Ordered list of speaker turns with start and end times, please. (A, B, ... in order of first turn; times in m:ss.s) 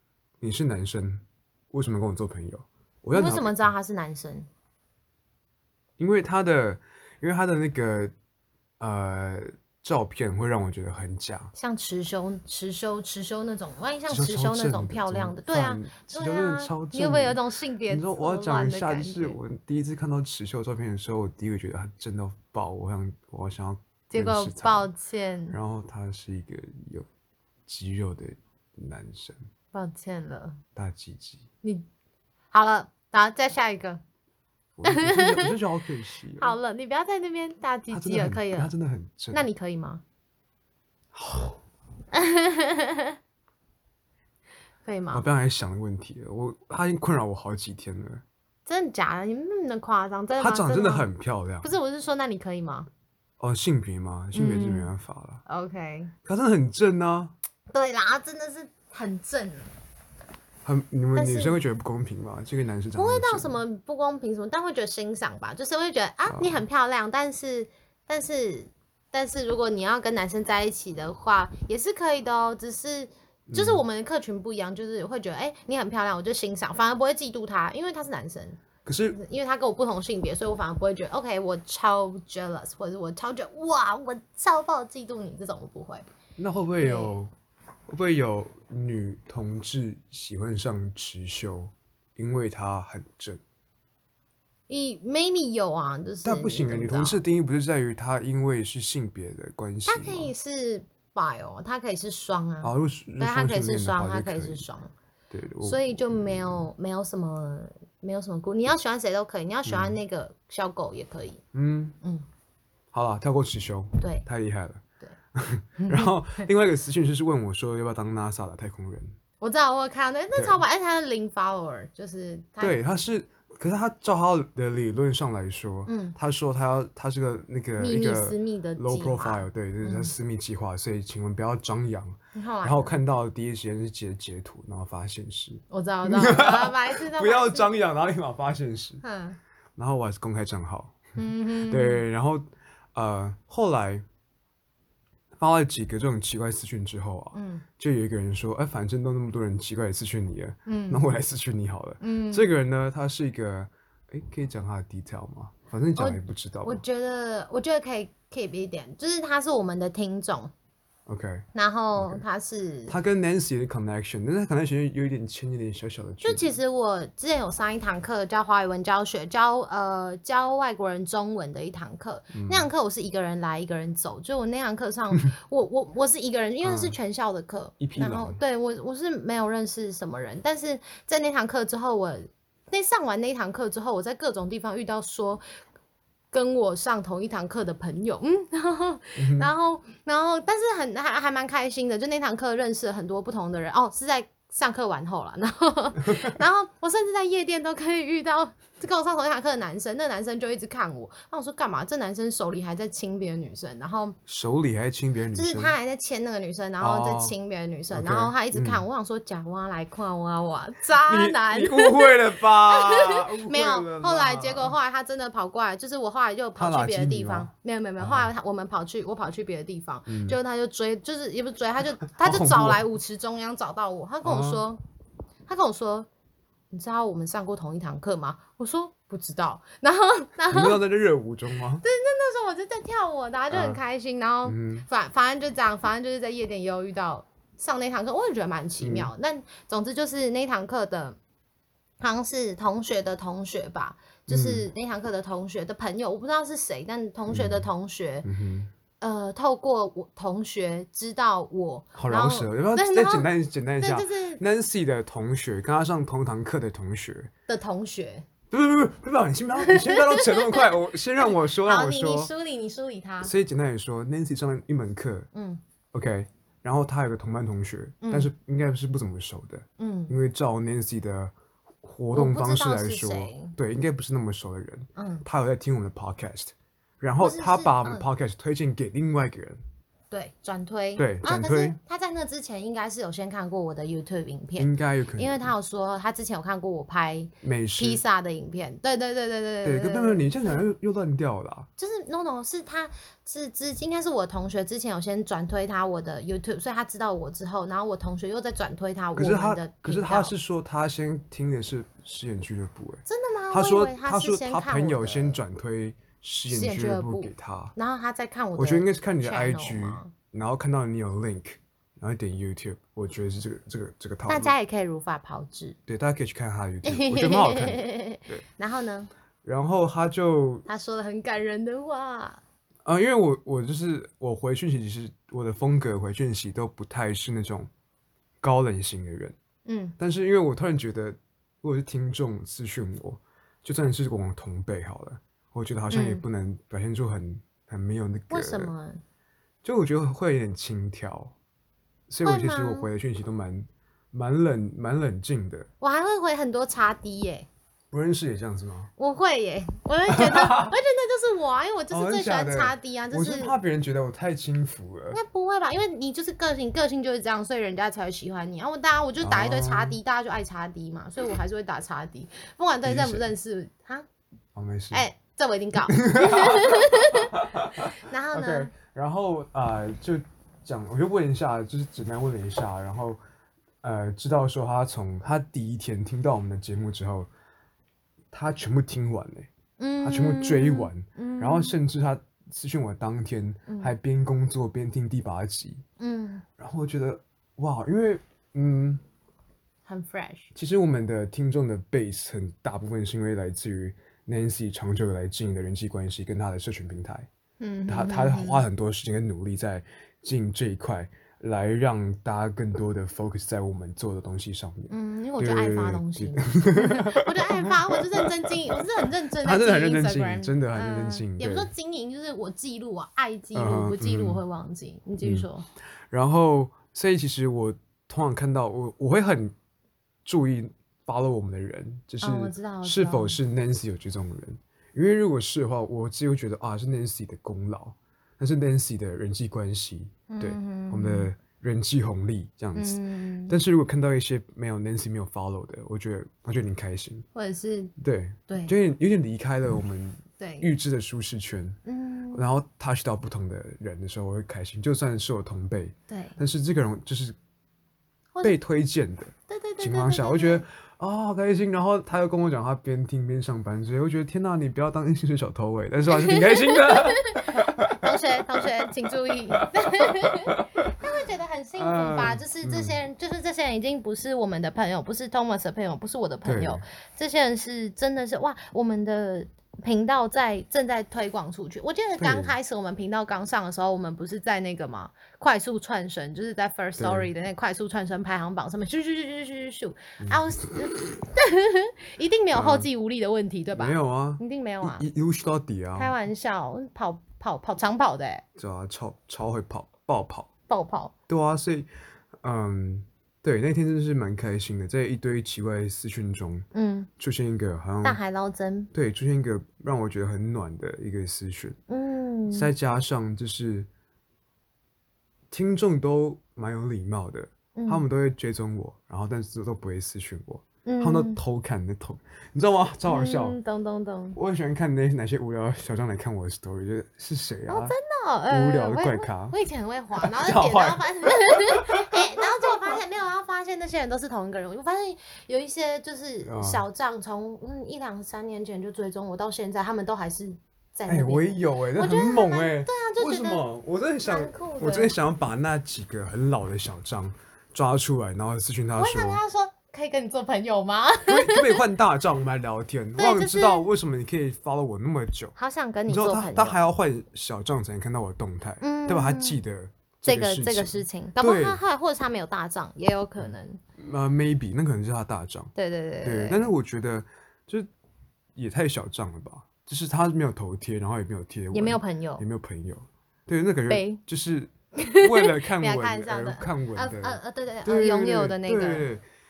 0:00.4-0:03.7 A
0:03.1-0:04.5 B
0:06.0-0:08.1 A
0:08.8-0:11.5 A
0:11.6-0:19.4 B
0:14.1-0:24.9 A
0:24.1-0:25.6 B
0:25.5-0:27.1 A
0:27.7-0:29.5 A
0:29.7-0:30.6 B
0:30.8-0:31.5 A
0:32.5-0:34.0 B
0:34.8-0:36.6 A
0:34.8-0:35.6 B
0:36.4-0:38.7 B
0:37.9-0:39.4 A
0:39.3-0:40.0 B
0:41.1-0:41.6 A
0:42.1-0:43.2 B
0:44.8-0:45.2 B
0:45.1-0:48.2 A
0:48.7-0:51.1 B
0:50.4-0:51.7 A
0:51.6-0:52.9 B
0:53.4-0:55.4 A
0:54.3-0:54.9 B
0:55.5-0:56.1 B
0:56.2-0:57.3 A
0:57.7-0:59.7 B
1:00.6-1:03.6 A
1:01.2-1:01.6 B
1:03.0-1:18.6 B
1:06.3-1:06.6 A
1:13.5-1:13.8 A
1:18.8-1:19.2 A
1:19.1-1:26.1 B
1:26.4-1:27.3 A
1:26.8-1:27.1 B
1:27.9-1:33.4 A
1:34.7-1:37.2 B
1:36.2-1:40.3 A
1:39.9-1:44.9 B
1:42.6-1:44.6 A
1:45.3-1:45.8 A
1:45.6-1:51.4 B
1:49.7-1:50.0 A
1:51.5-1:52.0 A
1:52.9-1:54.8 A
1:54.0-1:54.3 B
1:55.3-1:59.1 A
1:55.8-1:56.5 B
1:59.4-2:02.8 B
2:00.4-2:00.6 A
2:02.6-2:19.0 A
2:05.9-2:06.2 B
2:07.8-2:10.1 B
2:12.4-2:13.0 B
2:15.7-2:17.7 B
2:19.0-2:19.4 B
2:19.8-2:24.0 A
2:21.2-2:22.0 B
2:25.4-2:36.8 A
2:27.3-2:27.6 B
2:30.7-2:31.1 B
2:32.0-2:32.5 B
2:36.0-2:40.5 B
2:41.1-2:42.2 A
2:41.5-2:43.0 B
2:42.9-2:46.5 A
2:46.2-3:05.4 B
2:52.3-2:52.7 A
2:56.6-2:57.0 A
2:57.8-2:58.4 A
3:06.3-3:24.2 B
3:09.2-3:09.5 A
3:24.3-3:25.8 A
3:25.3-3:44.8 B
3:26.8-3:27.3 A
3:27.9-3:28.8 A
3:31.0-3:34.8 A
3:36.6-3:38.3 A
3:40.1-3:40.4 A
3:42.2-3:42.8 A
3:44.2-3:44.6 A
3:45.5-3:46.1 B
3:46.7-3:50.8 B
3:50.5-3:51.8 A
3:51.8-4:01.2 B
3:53.5-3:53.8 A
3:54.4-3:54.9 A
3:58.8-3:59.1 A
4:02.0-4:08.3 B
4:04.3-4:04.7 A
4:07.3-4:07.7 A
4:08.2-4:08.7 A
4:09.0-4:14.4 B
4:12.0-4:17.3 A
4:17.5-4:18.2 B
4:18.5-4:22.3 A
4:19.6-4:20.6 B
4:21.4-4:23.3 B
4:23.2-4:25.3 A
4:25.3-4:25.6 B
4:25.9-4:39.6 A
4:28.0-4:28.3 B
4:29.8-4:30.2 B
4:32.1-4:33.6 B
4:35.0-4:35.2 B
4:37.2-4:38.0 B
4:40.1-4:50.7 B
4:41.0-4:41.8 A
4:44.6-4:45.5 A
4:47.4-4:48.0 A
4:49.6-4:51.7 A
4:51.8-5:00.3 B
4:59.2-5:07.7 A
5:03.1-5:05.4 B
5:06.5-5:10.1 B
5:08.6-5:14.6 A
5:14.3-5:15.8 B
5:15.9-5:18.4 A
5:16.8-5:19.1 B
5:19.4-5:20.6 A
5:20.7-5:22.4 B
5:22.8-5:27.7 A
5:28.4-5:29.4 A
5:29.7-5:30.0 B
5:30.0-5:38.7 A
5:35.9-5:36.2 B
5:38.3-5:39.0 B
5:39.6-5:41.3 A
5:42.1-5:45.7 A
5:42.2-5:42.9 B
5:45.8-5:47.5 B
5:47.9-5:48.9 A
5:49.0-5:53.6 B
5:50.1-5:50.7 A
5:51.9-5:55.2 A
5:55.1-6:04.1 B
5:59.2-6:00.0 A
6:02.8-6:03.3 A
6:04.6-6:05.0 A
6:04.9-6:08.7 B
6:05.9-6:13.2 A
6:13.8-6:17.3 A
6:18.3-6:19.5 A
6:19.8-6:21.8 B
6:20.0-6:25.8 A
6:23.7-6:24.0 B
6:26.0-6:26.4 B
6:26.6-6:29.0 A
6:29.9-6:30.5 B
6:30.5-6:37.3 A
6:37.6-6:38.6 B
6:37.9-6:48.5 A
6:44.9-6:55.7 B
6:49.4-6:51.7 A
6:53.6-6:54.4 A
6:56.1-6:59.5 A
7:00.2-7:17.3 A
7:02.2-7:03.4 B
7:10.3-7:11.3 B
7:12.8-7:13.6 B
7:17.4-7:17.9 B
7:18.0-7:21.8 A
7:18.5-7:18.7 B
7:20.4-7:20.7 B
7:21.9-7:22.4 B
7:22.3-7:27.4 A
7:26.1-7:26.4 B
7:28.4-7:40.9 A
7:29.5-7:30.6 B
7:36.1-8:05.1 B
7:41.8-7:43.0 A
7:46.4-7:46.8 A
7:52.2-7:52.5 A
7:57.0-7:57.3 A
8:00.2-8:00.5 A
8:02.5-8:02.9 A
8:03.7-8:06.1 A
8:06.0-8:08.4 B
8:08.6-8:10.5 A
8:10.7-8:11.1 B
8:11.3-8:11.9 A
8:12.4-8:16.7 A
8:16.7-8:17.1 B
8:17.2-8:18.2 A
8:18.0-8:18.9 B
8:18.9-8:21.8 A
8:21.9-8:22.7 B
8:22.5-8:23.9 A
8:25.5-8:33.6 A
8:27.8-8:28.0 B
8:30.8-8:31.4 B
8:33.1-8:34.4 B
8:34.4-8:38.0 A
8:37.7-8:53.6 B
8:38.5-8:39.6 A
8:40.2-8:42.7 A
8:46.4-8:46.9 A
8:51.1-8:59.4 A
8:54.2-8:55.1 B
8:59.0-9:01.8 B
9:01.3-9:05.6 A
9:03.2-9:03.9 B
9:05.6-9:06.8 B
9:06.1-9:11.8 A
9:08.8-9:09.6 B
9:10.2-9:13.8 B
9:14.0-9:15.7 A
9:15.8-9:16.7 B
9:16.2-9:17.9 A
9:18.6-9:29.2 A
9:21.7-9:22.4 B
9:23.9-9:24.2 B
9:25.0-9:29.1 B